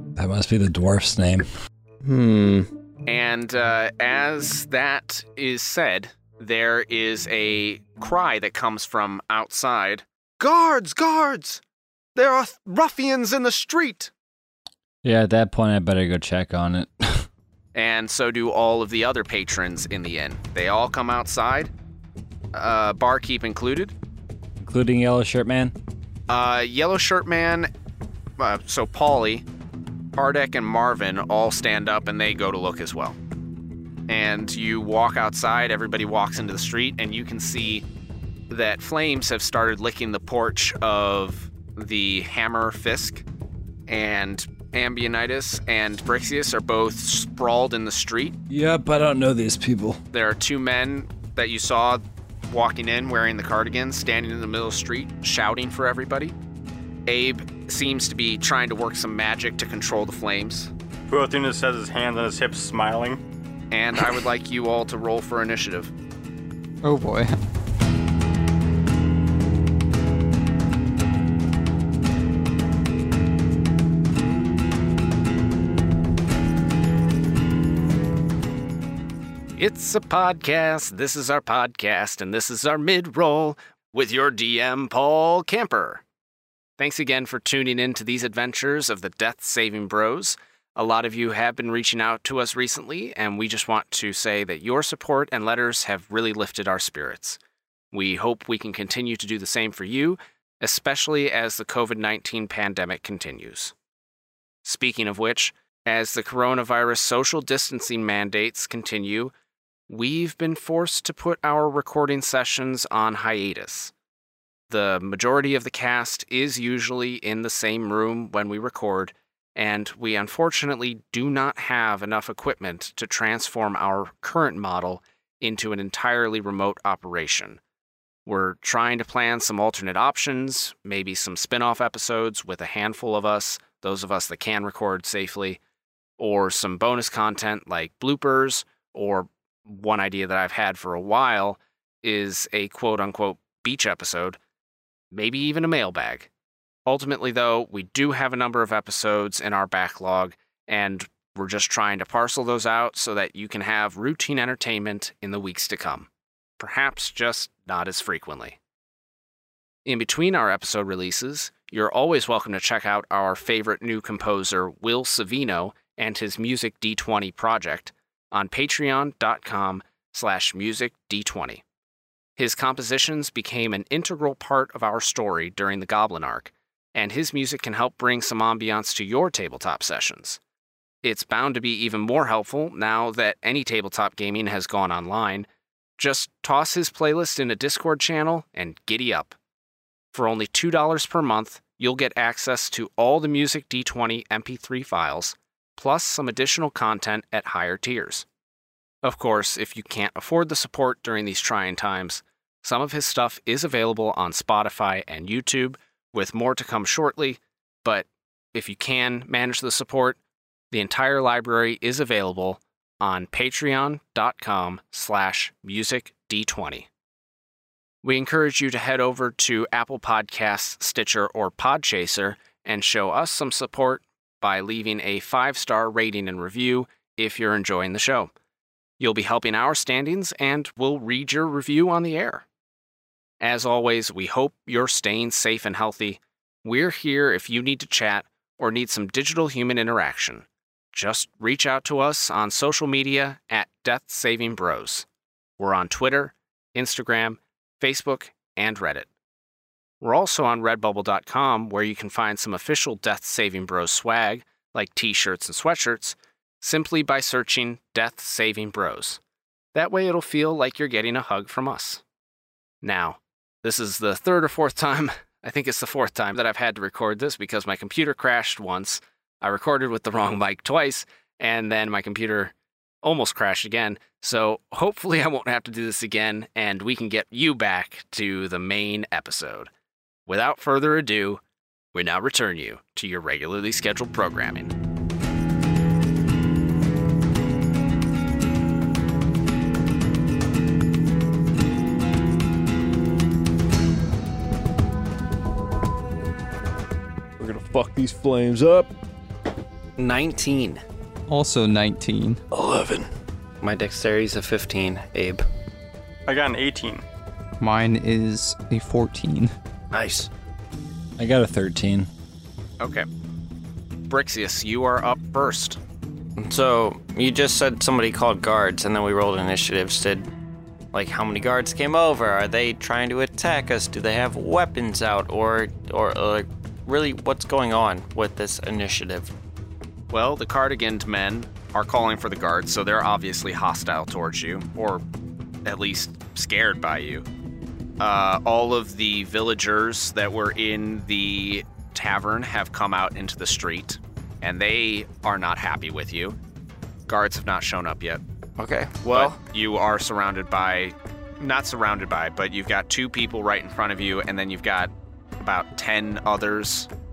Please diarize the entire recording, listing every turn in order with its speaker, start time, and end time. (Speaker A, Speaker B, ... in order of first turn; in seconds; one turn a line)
Speaker A: 0.2-1.5
Speaker B: 2.0-2.7
Speaker C: 3.1-11.6
Speaker C: 12.2-14.1
Speaker A: 15.0-17.3
Speaker C: 17.8-21.7
Speaker C: 22.5-23.9
Speaker A: 24.6-25.8
Speaker C: 26.3-27.7
Speaker C: 28.4-29.4
Speaker C: 30.1-33.2
Speaker C: 34.1-37.9
Speaker C: 38.5-43.2
Speaker C: 43.9-48.4
Speaker A: 48.5-50.0
Speaker C: 50.1-56.4
Speaker C: 57.1-60.7
Speaker D: 61.1-63.2
Speaker C: 63.7-65.9
Speaker E: 66.8-67.3
Speaker C: 79.6-86.0
Speaker C: 86.8-97.4
Speaker C: 97.9-103.7
Speaker C: 104.6-109.3
Speaker C: 109.9-113.9
Speaker C: 114.7-127.6
Speaker C: 128.3-135.6
Speaker C: 136.2-144.4
Speaker C: 145.1-146.3
Speaker C: 146.9-156.1
Speaker C: 156.6-158.6
Speaker C: 159.8-171.6
Speaker C: 172.4-180.4
Speaker C: 181.0-185.5
Speaker C: 186.0-189.3
Speaker C: 190.1-198.3
Speaker C: 199.0-210.2
Speaker C: 210.7-216.9
Speaker C: 218.0-228.3
Speaker C: 229.0-232.4
Speaker C: 233.4-245.1
Speaker C: 245.6-249.1
Speaker C: 250.0-259.2
Speaker C: 259.7-262.0
Speaker C: 262.8-279.7
Speaker C: 280.3-281.4
Speaker C: 281.9-284.7
Speaker B: 297.4-298.9
Speaker F: 300.0-300.8
Speaker E: 301.3-302.4
Speaker F: 302.5-303.1
Speaker F: 303.6-305.4
Speaker D: 306.3-307.0
Speaker E: 307.6-309.5
Speaker F: 309.9-310.3
Speaker A: 311.2-312.1
Speaker C: 312.8-313.1
Speaker C: 314.1-315.8
Speaker F: 316.4-320.3
Speaker F: 320.9-329.3
Speaker C: 330.1-335.0
Speaker C: 335.6-337.3
Speaker C: 338.0-346.4
Speaker C: 347.1-348.2
Speaker F: 348.6-349.4
Speaker C: 349.1-356.9